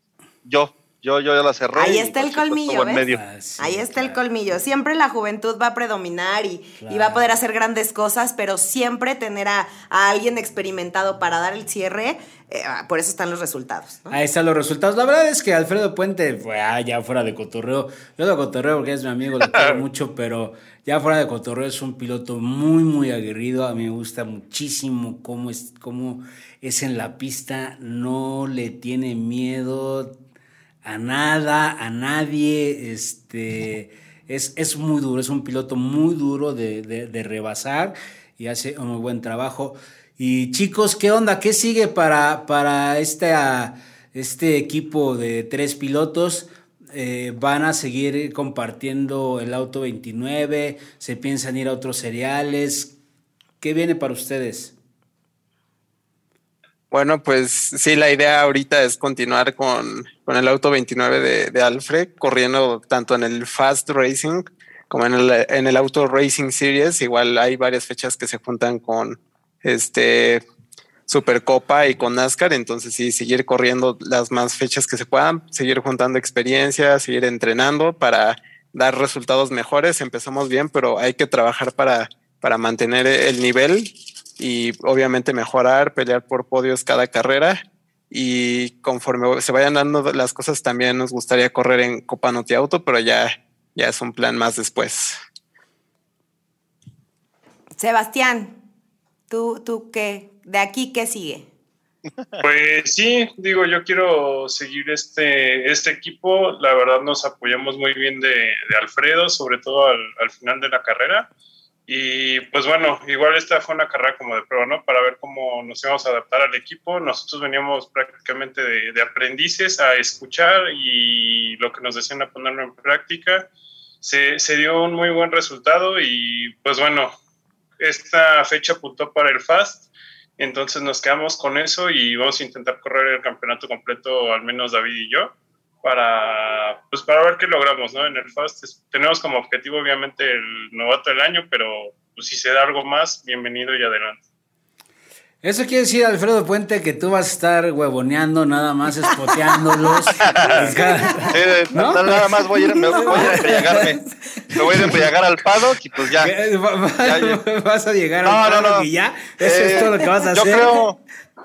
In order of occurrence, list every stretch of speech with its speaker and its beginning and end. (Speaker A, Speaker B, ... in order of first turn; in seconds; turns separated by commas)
Speaker A: 0.5-3.2, Speaker B: 1.8-3.0, Speaker C: 3.1-4.3, Speaker B: 3.6-14.2, Speaker C: 6.8-7.4, Speaker C: 14.1-30.1, Speaker C: 30.8-53.0, Speaker C: 53.6-54.7, Speaker D: 56.9-70.4, Speaker D: 71.1-87.6, Speaker D: 88.1-95.2, Speaker B: 97.8-98.6, Speaker B: 99.3-101.5, Speaker E: 102.4-111.3, Speaker E: 111.9-123.5, Speaker E: 124.0-127.1, Speaker E: 127.8-144.2, Speaker C: 145.4-154.0, Speaker B: 149.3-151.3, Speaker A: 150.2-150.7, Speaker A: 151.3-154.0, Speaker B: 152.6-154.1, Speaker A: 154.5-156.3, Speaker C: 154.6-155.1, Speaker C: 156.1-160.8, Speaker A: 157.0-157.4, Speaker A: 158.2-158.9, Speaker A: 159.4-161.0